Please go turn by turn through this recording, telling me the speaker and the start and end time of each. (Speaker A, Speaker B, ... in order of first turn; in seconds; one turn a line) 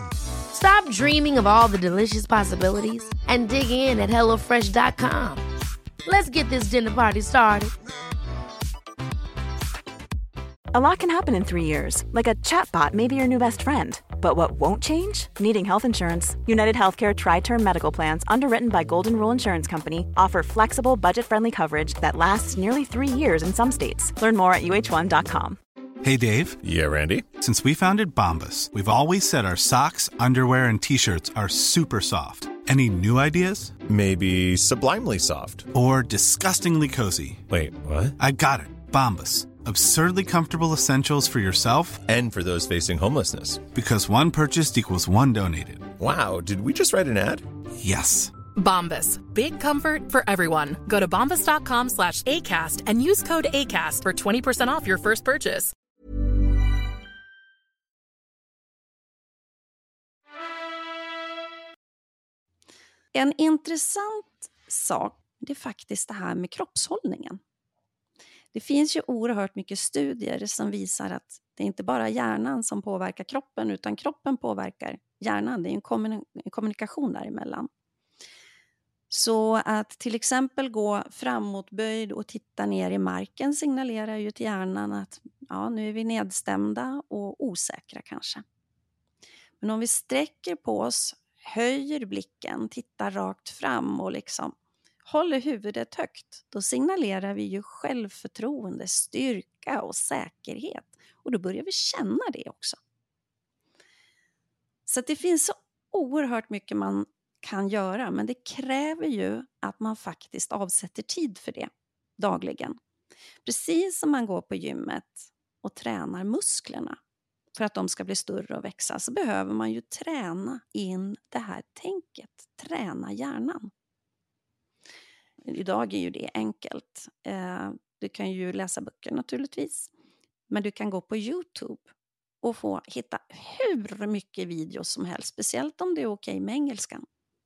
Speaker A: 0.5-5.4
Speaker A: 6.0-7.7
Speaker B: 10.7-25.6
Speaker C: 26.0-26.6
Speaker D: 26.6-27.3
Speaker C: 27.4-33.8
Speaker D: 33.8-35.7
Speaker C: 35.7-37.4
Speaker D: 37.5-38.1
Speaker C: 38.2-42.0
Speaker D: 42.0-43.7
Speaker C: 43.7-45.9
Speaker D: 46.0-47.5
Speaker C: 47.8-48.3
Speaker E: 48.5-55.7
Speaker F: 63.1-67.4
Speaker F: 68.5-77.7
Speaker F: 79.1-88.4
Speaker F: 89.6-94.5
Speaker F: 95.0-102.8
Speaker F: 104.9-112.8
Speaker F: 113.4-117.0
Speaker F: 117.5-123.7
Speaker F: 125.5-129.9
Speaker F: 130.5-131.9
Speaker F: 132.4-137.0